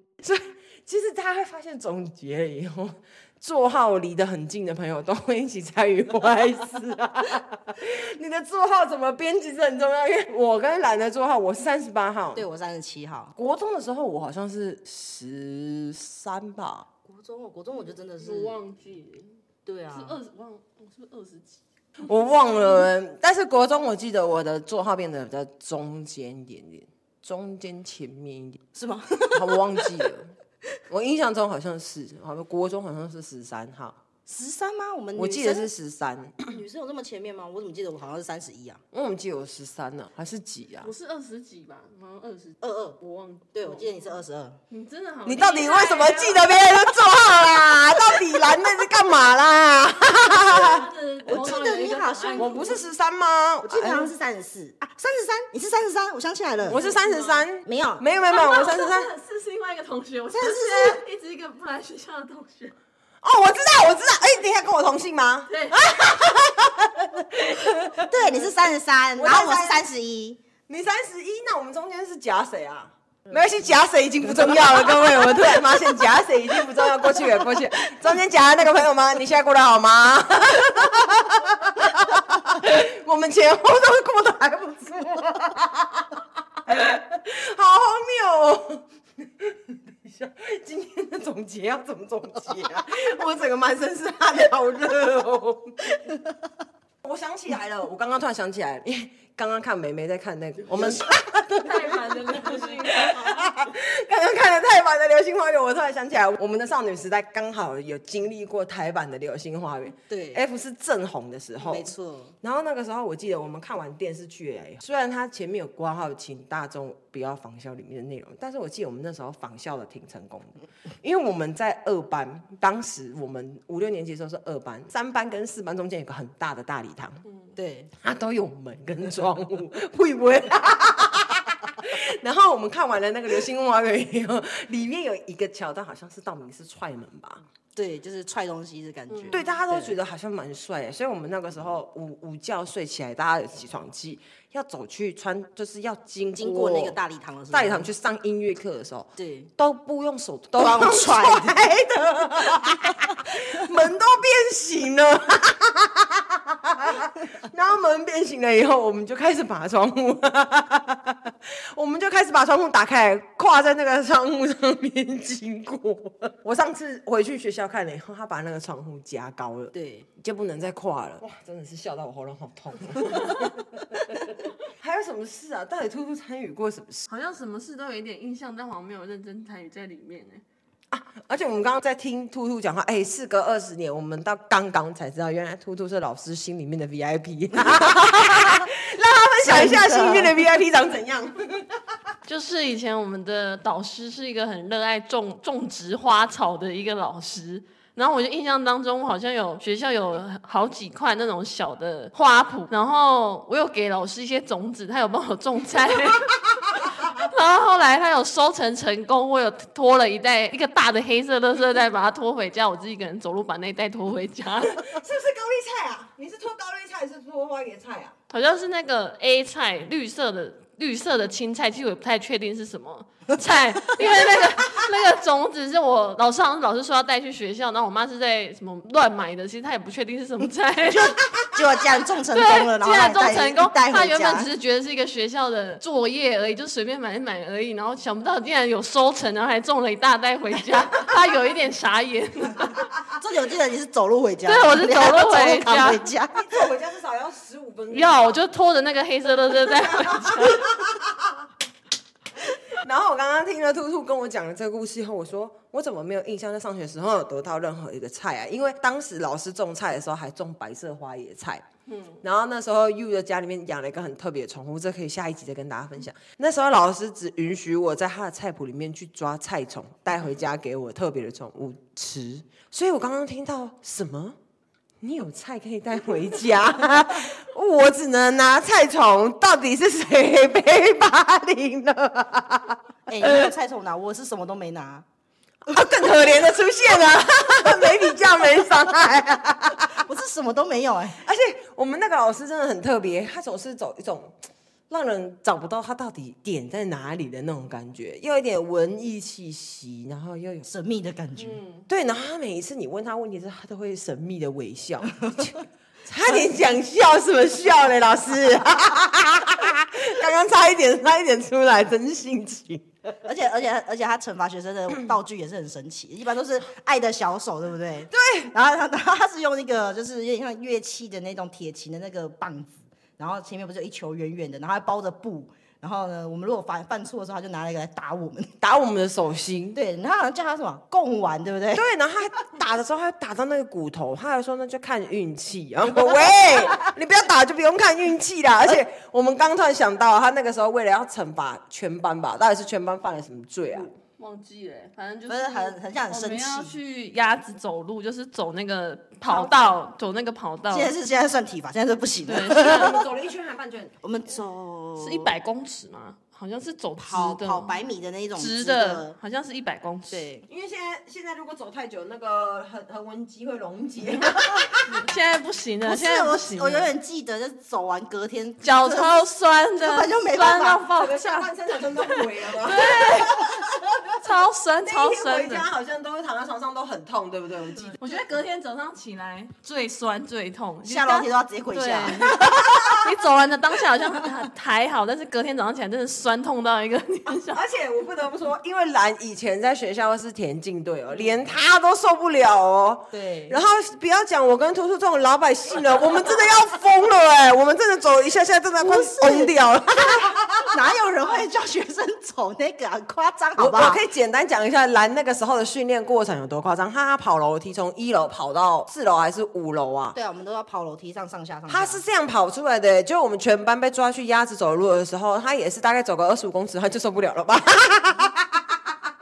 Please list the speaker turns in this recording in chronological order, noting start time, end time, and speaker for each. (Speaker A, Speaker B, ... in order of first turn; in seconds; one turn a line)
Speaker A: 0.2-12.4
Speaker B: 12.3-13.3
Speaker A: 13.3-16.9
Speaker B: 17.1-18.6
Speaker C: 17.9-19.3
Speaker B: 19.7-20.2
Speaker C: 19.9-21.6
Speaker A: 22.1-28.6
Speaker B: 28.7-29.9
Speaker A: 29.3-30.3
Speaker A: 30.9-34.0
Speaker B: 34.3-35.7
Speaker A: 35.1-36.6
Speaker B: 36.5-38.8
Speaker A: 38.9-40.9
Speaker C: 40.8-46.5
Speaker B: 42.6-43.0
Speaker B: 43.5-44.6
Speaker A: 45.2-50.9
Speaker C: 50.3-52.8
Speaker B: 51.2-52.7
Speaker A: 52.4-54.1
Speaker B: 53.6-56.8
Speaker A: 56.6-59.1
Speaker C: 56.7-57.5
Speaker B: 57.6-58.0
Speaker C: 58.3-62.7
Speaker B: 60.3-61.0
Speaker A: 63.2-68.4
Speaker C: 65.5-66.3
Speaker B: 68.1-70.4
Speaker A: 69.2-69.8
Speaker A: 70.7-86.1
Speaker B: 74.3-75.4
Speaker A: 86.7-88.8
Speaker A: 89.4-96.1
Speaker A: 97.0-127.2
Speaker C: 101.6-103.5
Speaker B: 110.1-110.4
Speaker B: 111.6-112.3
Speaker B: 127.6-127.9
Speaker A: 128.0-137.4
Speaker B: 137.8-140.0
Speaker C: 139.1-139.4
Speaker A: 139.3-147.0
Speaker B: 146.4-147.9
Speaker A: 147.5-177.1
Speaker B: 149.2-149.5
Speaker B: 150.6-151.6
Speaker B: 169.7-170.1
Speaker C: 177.1-180.4
Speaker A: 180.9-191.8
Speaker B: 189.4-190.4
Speaker C: 192.3-214.9
Speaker A: 214.6-218.1
Speaker C: 218.3-231.2
Speaker B: 230.8-234.5
Speaker C: 232.3-242.9
Speaker B: 243.1-246.7
Speaker C: 244.4-246.1
Speaker A: 246.3-248.3
Speaker C: 247.9-250.7
Speaker A: 252.8-261.6
Speaker C: 261.9-262.2
Speaker A: 262.2-274.4
Speaker A: 275.0-283.5
Speaker B: 283.1-285.1
Speaker A: 285.7-289.9
Speaker B: 289.9-291.2
Speaker A: 291.2-294.4
Speaker A: 294.9-300.6
Speaker B: 300.7-301.6
Speaker C: 301.4-301.9
Speaker A: 301.9-312.9
Speaker B: 313.2-328.5
Speaker A: 318.1-318.5
Speaker A: 328.6-329.8
Speaker B: 329.8-331.8
Speaker A: 331.8-343.9
Speaker C: 343.8-350.9
Speaker B: 345.3-346.8
Speaker B: 349.3-349.5
Speaker B: 350.7-353.0
Speaker C: 352.2-353.0
Speaker A: 352.5-354.0
Speaker B: 354.0-355.3
Speaker C: 355.0-360.3
Speaker B: 357.0-359.2
Speaker B: 360.1-360.5
Speaker A: 360.5-364.9
Speaker C: 364.8-366.9
Speaker B: 365.8-369.2
Speaker C: 368.6-371.5
Speaker B: 369.8-370.8
Speaker A: 371.0-373.7
Speaker C: 372.1-373.5
Speaker C: 374.2-375.7
Speaker A: 374.8-378.0
Speaker C: 377.8-387.6
Speaker B: 380.8-382.9
Speaker A: 382.2-383.0
Speaker A: 387.5-400.7
Speaker B: 393.1-393.6
Speaker B: 398.8-404.0
Speaker A: 403.6-410.2
Speaker B: 410.1-412.0
Speaker A: 411.7-418.6